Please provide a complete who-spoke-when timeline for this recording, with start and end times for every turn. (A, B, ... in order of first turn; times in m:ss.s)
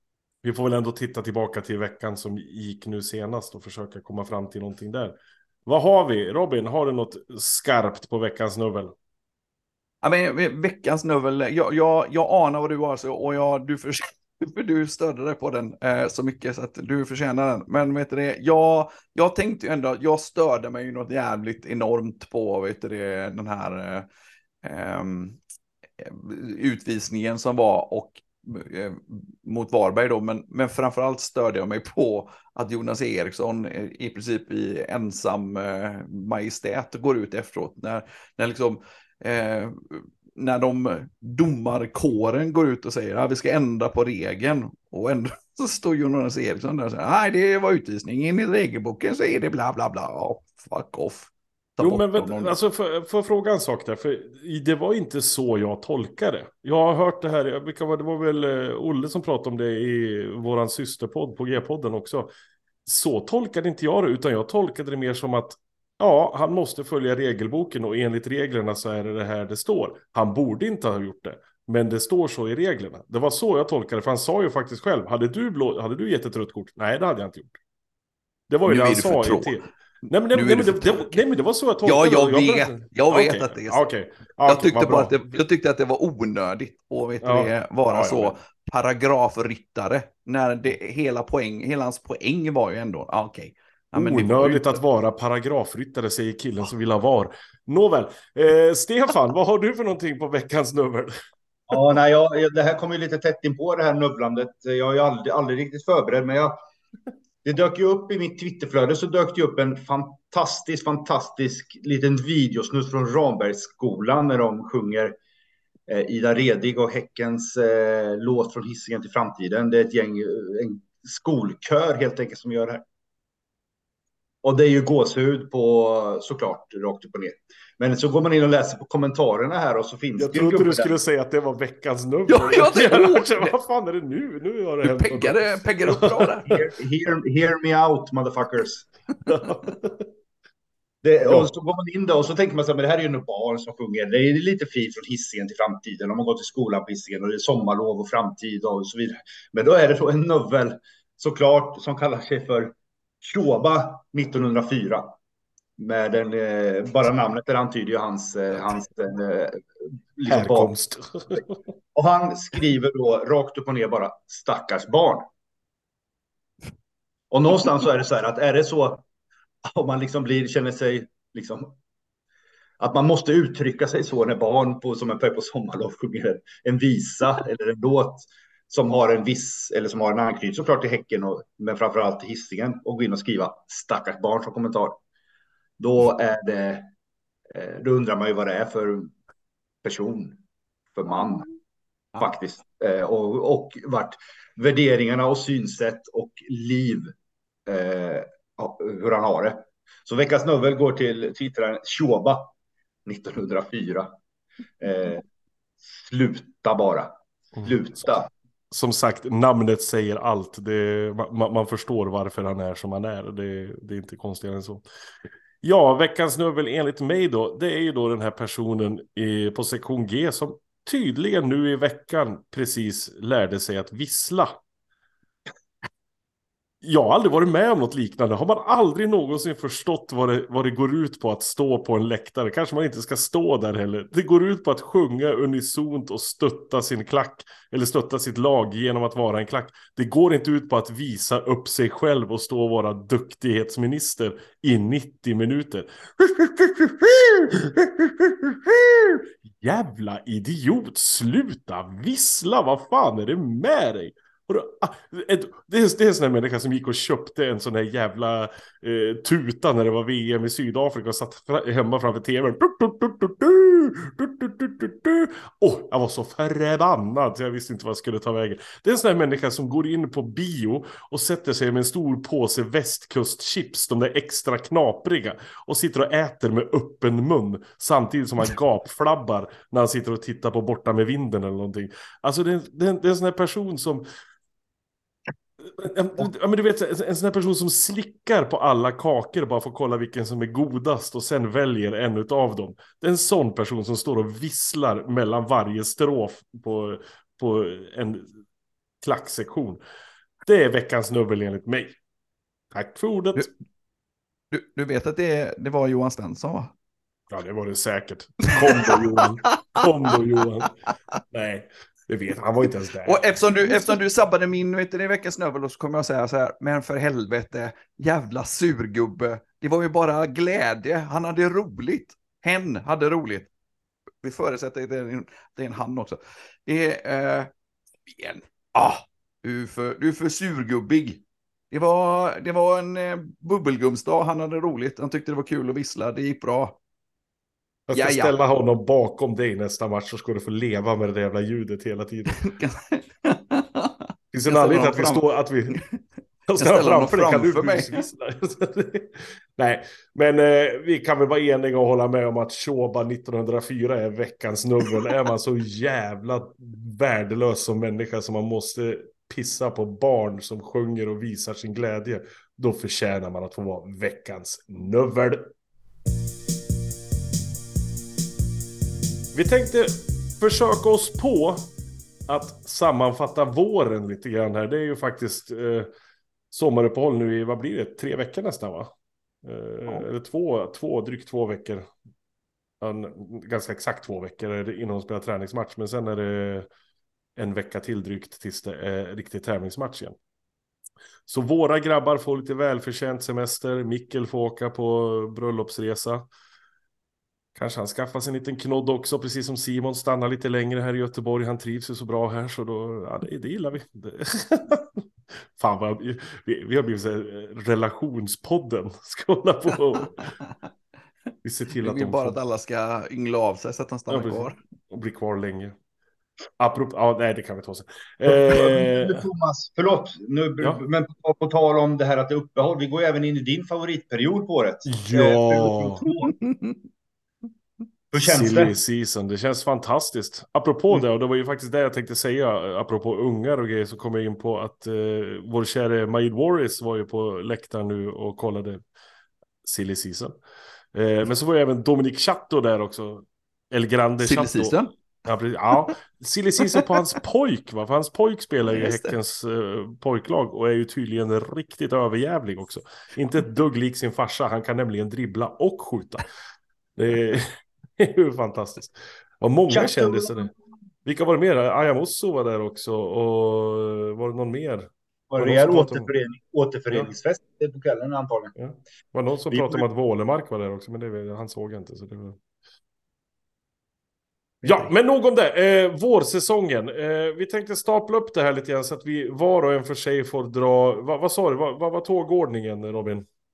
0:00.4-0:08.9 A
0:10.0-0:24.1 B
0:24.6-0:25.4 B
0:26.0-0:52.5 B
0:51.8-1:02.3 A
1:02.8-1:17.6 A
1:18.5-1:25.1 A
1:18.6-1:21.2 B
1:21.8-1:23.9 B
1:24.4-1:34.8 B
1:27.2-1:28.3 A
1:33.9-1:41.1 A
1:41.7-1:46.5 C
1:47.4-1:55.2 C
1:55.9-2:02.8 C
2:04.4-2:11.0 C
2:10.2-2:16.6 A
2:12.3-2:13.5 B
2:14.8-2:16.5 B
2:16.5-2:18.9 C
2:19.2-2:20.1 A
2:21.0-2:35.2 C
2:35.8-2:40.7 C
2:40.3-2:41.5 A
2:41.9-2:45.3 C
2:47.3-2:49.0 C
2:49.6-2:51.8 C
2:52.8-3:05.0 C
3:05.8-3:06.9 C
3:07.5-3:09.1 C
3:09.8-3:10.4 C
3:10.9-3:11.5 C
3:12.2-3:17.1 C
3:17.7-3:22.5 C
3:23.0-3:24.2 C
3:24.8-3:25.2 C
3:25.8-3:28.3 C
3:28.7-3:34.8 A
3:35.6-3:44.6 A
3:46.8-4:44.0 A
4:45.6-4:58.3 A
4:59.0-4:59.8 A
5:00.4-5:02.0 A
5:02.7-5:03.5 A
5:04.5-5:06.7 B
5:07.3-5:13.2 A
5:08.8-5:09.5 B
5:13.0-5:23.5 B
5:24.2-5:27.5 B
5:28.0-5:36.8 B
5:37.9-5:42.4 A
5:37.9-5:38.3 B
5:42.3-5:45.8 B
5:44.3-5:45.8 A
5:46.5-6:05.5 A
5:46.6-5:48.0 B
6:09.3-6:11.7 A
6:12.3-6:15.9 A
6:16.5-6:21.9 A
6:22.8-6:26.7 A
6:27.4-6:30.2 A
6:31.3-6:36.2 A
6:37.5-6:50.2 A
6:51.4-6:52.4 A
6:51.8-6:54.6 B
6:54.1-6:55.8 A
6:56.6-6:59.2 A
6:58.3-7:06.3 C
7:04.9-7:06.0 A
7:06.2-7:06.8 B
7:08.1-7:08.7 C
7:08.2-7:18.8 A
7:19.6-7:20.4 A
7:20.9-7:36.3 A
7:24.2-7:24.9 B
7:28.7-7:29.2 B
7:37.0-7:37.5 A
7:38.0-7:40.5 A
7:39.7-7:40.5 C
7:41.0-7:46.1 A
7:45.3-7:48.5 C
7:48.6-7:52.4 A
7:49.5-7:49.8 C
7:54.6-8:03.2 A